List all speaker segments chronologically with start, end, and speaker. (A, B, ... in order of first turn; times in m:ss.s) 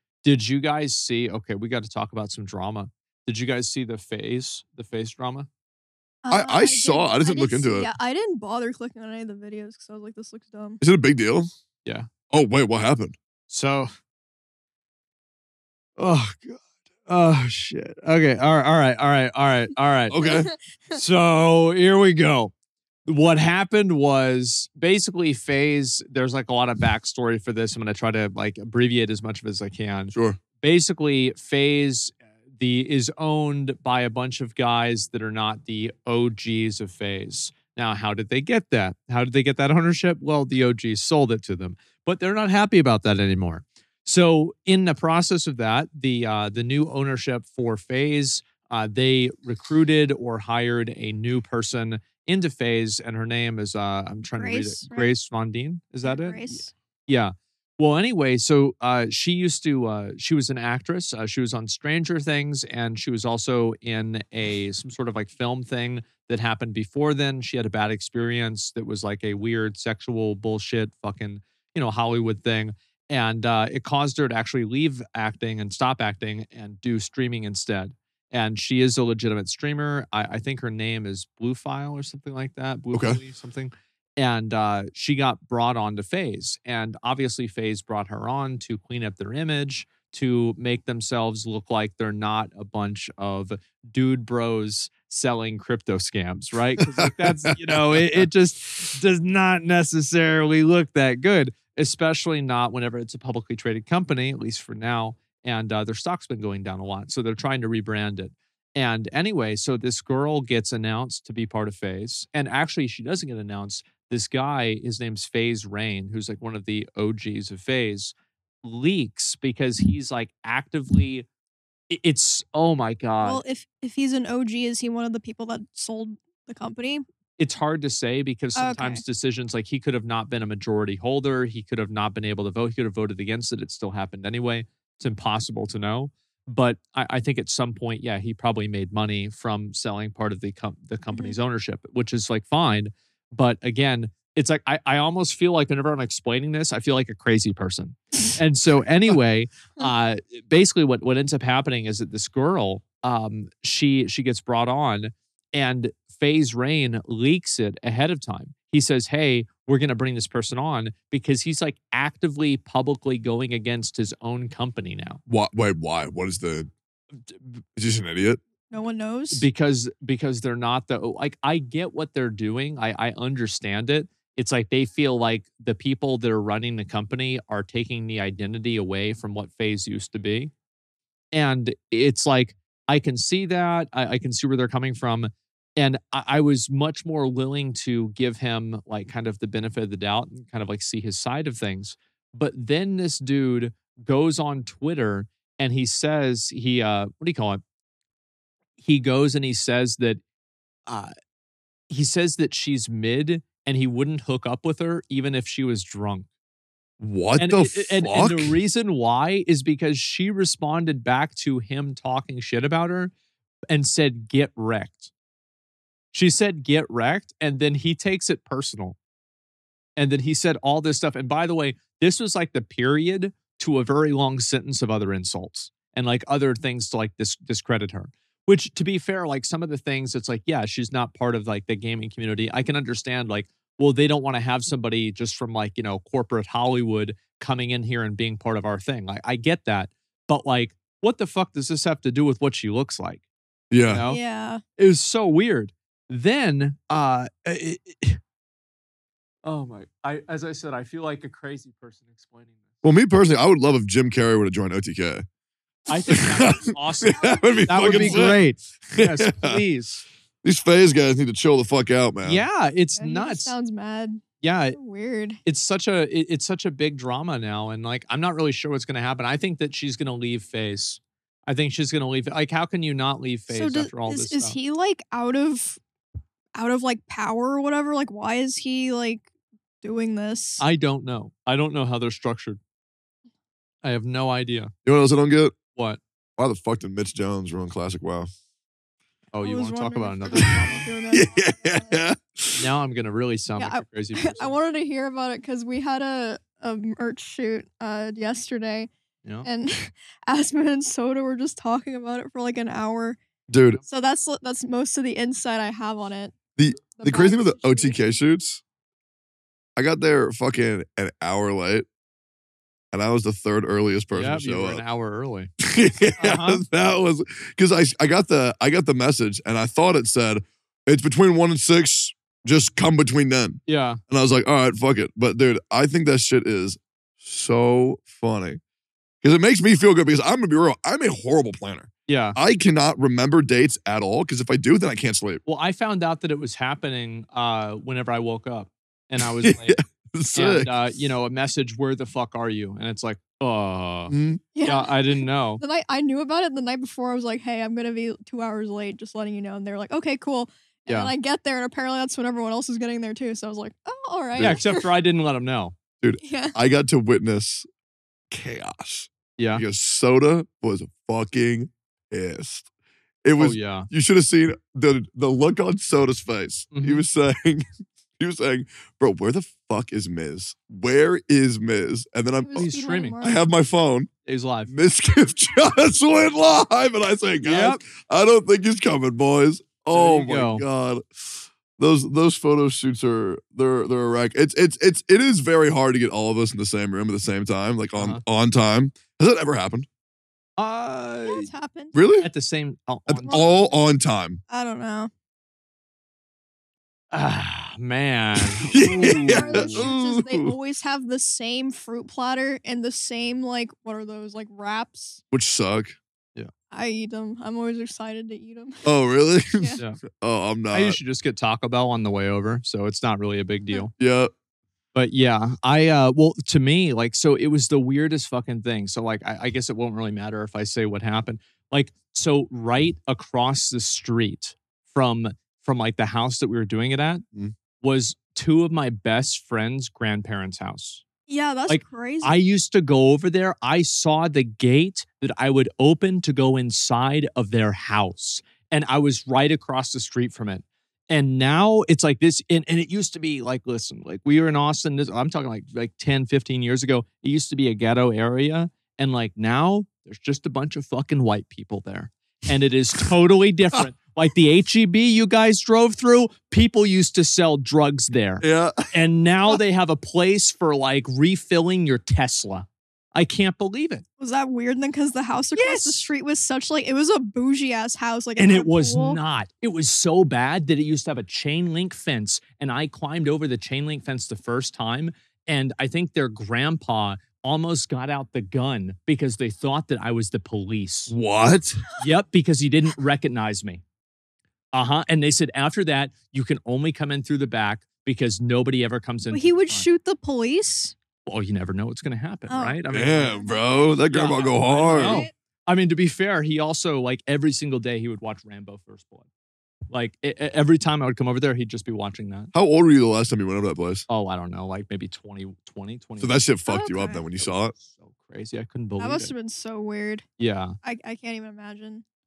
0:00.2-0:05.5 A
0:06.2-0:10.8 B
0:06.3-0:07.9 C
0:10.8-0:11.5 C
0:12.3-0:13.1 C
0:13.5-0:13.9 A
0:16.0-0:20.2 A
0:20.1-0:20.5 C
0:20.2-0:20.9 B
0:20.9-0:22.5 A
0:23.0-2:01.2 A
0:30.1-0:30.4 C
0:54.4-0:55.1 B
0:56.0-0:56.7 B
1:22.9-1:23.2 C
1:36.8-1:38.2 C
2:01.9-2:03.4 A
2:03.2-2:07.0 B
2:07.4-2:45.2 A
2:08.6-2:09.0 B
2:45.3-2:46.7 C
2:47.8-2:48.4 C
2:48.7-2:49.5 B
2:49.3-3:00.5 A
3:01.3-3:17.6 A
3:18.8-3:20.2 A
3:20.9-3:21.1 A
3:21.9-3:26.3 A
3:27.0-3:28.5 C
3:27.4-3:33.1 A
3:33.7-3:35.1 A
3:36.1-3:39.0 A
3:40.0-4:03.2 A
4:03.7-4:04.0 C
4:03.8-4:04.2 A
4:04.1-4:04.6 B
4:04.8-4:08.2 A
4:09.4-4:12.6 A
4:12.8-4:15.2 C
4:15.9-4:20.0 A
4:16.1-4:19.6 C
4:17.2-4:18.4 B
4:20.4-4:22.4 C
4:22.2-4:23.5 A
4:23.0-4:25.4 B
4:24.4-4:24.8 A
4:25.4-4:34.6 A
4:33.5-4:35.8 B
4:36.5-4:39.3 B
4:39.8-4:40.6 B
4:40.6-4:42.6 A
4:43.8-4:44.7 A
4:44.8-4:45.5 C
4:45.7-4:46.0 A
4:46.4-4:48.3 C
4:49.3-4:50.8 A
4:49.4-4:52.0 B
4:51.1-4:52.6 C
4:52.6-4:54.5 A
4:53.6-4:58.9 B
4:59.4-5:03.2 B
5:03.5-5:03.8 C
5:03.9-5:06.4 B
5:06.6-5:08.6 C
5:06.9-5:08.2 B
5:09.8-5:11.8 C
5:12.9-5:14.8 C
5:14.1-5:15.5 A
5:15.6-5:28.6 C
5:16.2-5:16.6 A
5:23.7-5:24.0 A
5:29.2-5:35.4 C
5:32.1-5:32.4 A
5:35.4-5:39.8 A
5:39.2-5:40.7 C
5:40.3-5:45.6 A
5:44.1-5:44.4 C
5:44.5-5:45.0 B
5:45.6-5:54.8 B
5:50.9-5:51.1 A
5:54.3-5:54.6 C
5:54.4-5:55.7 A
5:56.0-5:57.7 C
5:56.2-5:56.6 B
5:58.3-6:02.7 C
5:59.4-5:59.6 A
6:03.2-6:07.6 C
6:03.4-6:03.9 A
6:06.7-6:07.0 A
6:08.2-6:14.1 C
6:12.4-6:13.4 B
6:12.6-6:13.2 A
6:14.2-6:14.7 A
6:14.7-6:29.8 C
6:17.4-6:17.8 A
6:19.9-6:20.6 A
6:30.6-6:31.5 A
6:31.3-6:32.0 B
6:31.9-6:32.3 C
6:32.2-6:33.4 A
6:33.1-6:34.4 C
6:33.2-6:33.6 B
6:34.5-6:35.1 B
6:37.1-6:39.9 A
6:38.6-6:40.5 C
6:38.8-6:45.2 B
6:45.3-6:45.9 C
6:46.7-6:48.9 B
6:48.8-6:51.0 C
6:49.5-6:49.8 B
6:50.7-6:53.9 A
6:54.0-6:54.3 C
6:54.9-7:07.2 A
7:07.8-7:11.0 A
7:11.3-7:12.4 B
7:11.7-7:44.0 A
7:38.4-7:38.9 C
7:44.2-7:49.2 B
7:45.5-7:46.0 A
7:48.4-8:01.1 A
8:01.1-8:01.9 C
8:02.0-8:03.8 A
8:04.7-8:09.8 A
8:09.3-8:10.9 B
8:11.2-8:13.4 A
8:12.5-8:12.8 B
8:12.9-8:15.2 C
8:13.3-8:13.6 B
8:14.1-8:19.2 A
8:14.8-8:15.3 B
8:19.9-8:22.5 A
8:22.5-8:24.0 C
8:24.1-8:26.4 A
8:26.2-8:27.7 C
8:26.7-8:27.2 B
8:27.4-8:29.3 A
8:29.0-8:30.2 B
8:30.4-8:30.8 A
8:30.8-8:32.0 B